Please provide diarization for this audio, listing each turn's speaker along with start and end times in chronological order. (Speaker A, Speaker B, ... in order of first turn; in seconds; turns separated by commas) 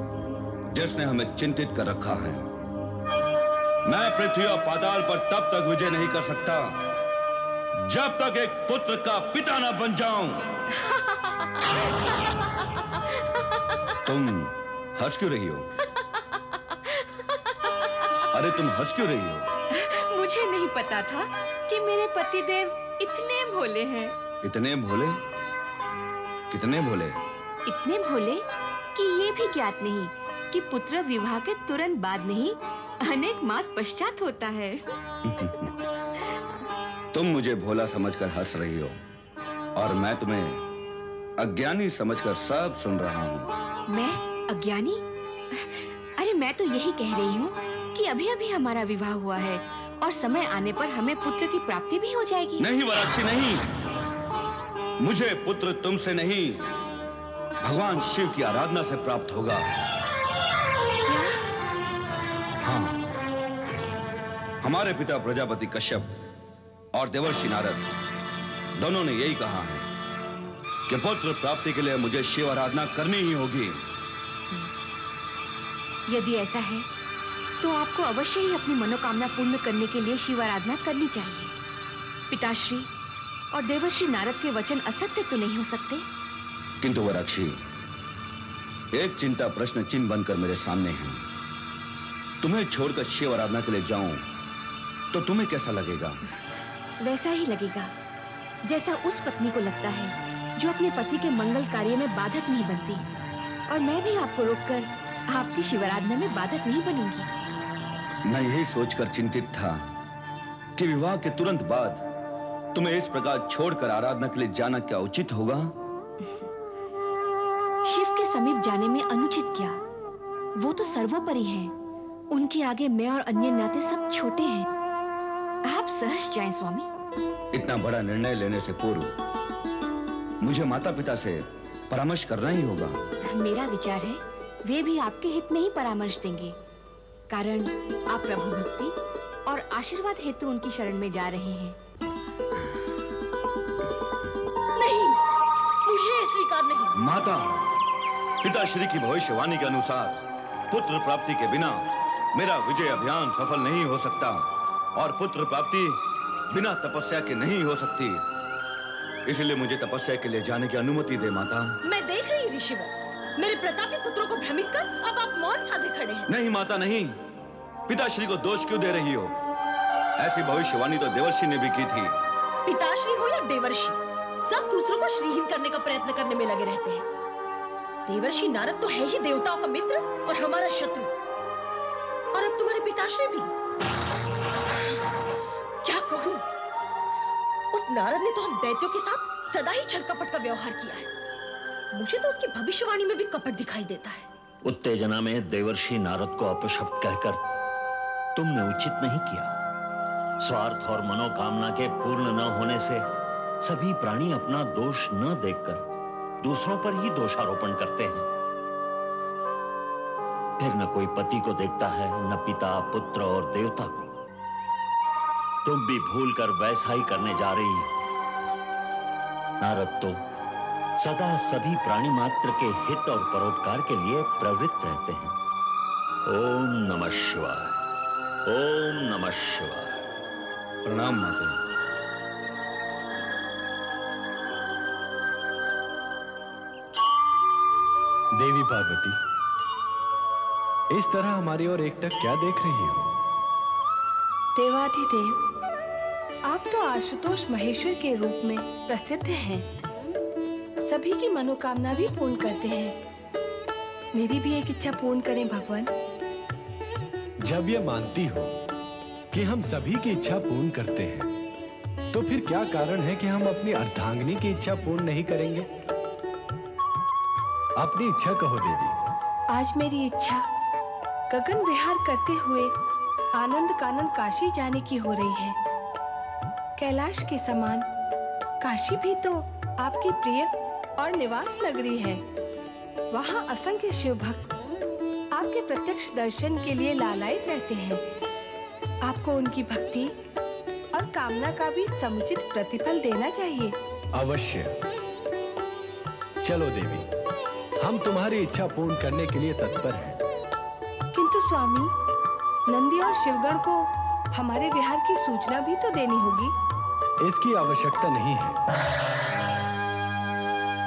Speaker A: 0.7-2.5, Speaker A: 3.9-6.7, Speaker A: 7.8-10.4, Speaker A: 14.1-15.7, Speaker A: 18.3-19.5, Speaker B: 19.7-24.2, Speaker A: 24.4-25.2, Speaker A: 26.5-27.2, Speaker B: 27.6-34.8, Speaker A: 35.2-35.7, Speaker A: 37.1-39.0, Speaker A: 39.8-40.6, Speaker A: 41.4-43.5, Speaker B: 43.9-45.0, Speaker B: 45.5-52.6, Speaker A: 52.6-53.6, Speaker A: 55.0-56.6, Speaker A: 57.6-59.6, Speaker B: 61.0-61.4, Speaker A: 62.6-63.0, Speaker A: 64.6-66.1, Speaker A: 66.9-67.9, Speaker A: 68.7-69.9, Speaker A: 70.9-73.8, Speaker B: 76.1-76.9, Speaker B: 77.6-81.5, Speaker B: 82.3-82.9, Speaker B: 83.5-86.0, Speaker A: 86.8-87.5, Speaker A: 88.9-91.2, Speaker A: 92.4-94.2, Speaker A: 95.1-96.2, Speaker B: 97.0-97.9, Speaker B: 98.6-103.0, Speaker B: 103.7-107.3, Speaker A: 108.2-109.8, Speaker A: 110.8-112.0, Speaker A: 112.7-115.7, Speaker B: 117.8-119.8, Speaker B: 120.6-121.7, Speaker B: 122.3-124.7, Speaker B: 125.7-126.9, Speaker A: 127.5-129.1, Speaker A: 130.4-133.0, Speaker B: 133.3-136.6, Speaker B: 137.3-141.8, Speaker C: 144.8-145.2, Speaker C: 145.9-146.9, Speaker A: 146.9-147.6, Speaker A: 148.4-150.2, Speaker A: 150.7-151.8, Speaker A: 152.3-156.0, Speaker A: 156.5-158.2, Speaker A: 159.2-161.8, Speaker C: 161.8-166.2, Speaker A: 166.3-167.2, Speaker A: 167.9-169.3, Speaker A: 170.2-172.1, Speaker C: 172.7-177.0, Speaker C: 178.1-181.1, Speaker C: 182.3-183.4, Speaker C: 185.8-186.4, Speaker C: 187.7-191.1, Speaker C: 191.9-194.2, Speaker D: 194.6-197.4, Speaker D: 198.3-199.5, Speaker D: 200.4-203.0, Speaker D: 203.6-205.8, Speaker D: 206.4-208.3, Speaker D: 210.6-214.1, Speaker D: 215.6-217.9, Speaker D: 219.6-220.2, Speaker D: 221.0-225.3, Speaker D: 226.2-227.8, Speaker D: 228.4-230.0, Speaker A: 230.8-231.6, Speaker E: 238.3-239.2, Speaker E: 240.9-243.1, Speaker F: 244.5-245.4, Speaker F: 246.5-249.7, Speaker F: 250.8-253.0, Speaker F: 254.1-255.9, Speaker E: 257.4-258.5, Speaker E: 259.3-261.3, Speaker E: 262.1-265.7, Speaker E: 267.8-268.9, Speaker F: 269.5-270.4, Speaker F: 271.3-272.7, Speaker F: 273.3-275.6, Speaker F: 276.8-277.9, Speaker F: 278.6-282.2, Speaker F: 283.1-284.5, Speaker F: 285.3-288.0, Speaker F: 289.0-290.1, Speaker F: 290.9-293.8, Speaker E: 294.1-294.7, Speaker E: 296.4-297.1, Speaker E: 297.8-300.2, Speaker F: 301.1-301.9, Speaker F: 302.7-306.5, Speaker E: 307.2-308.6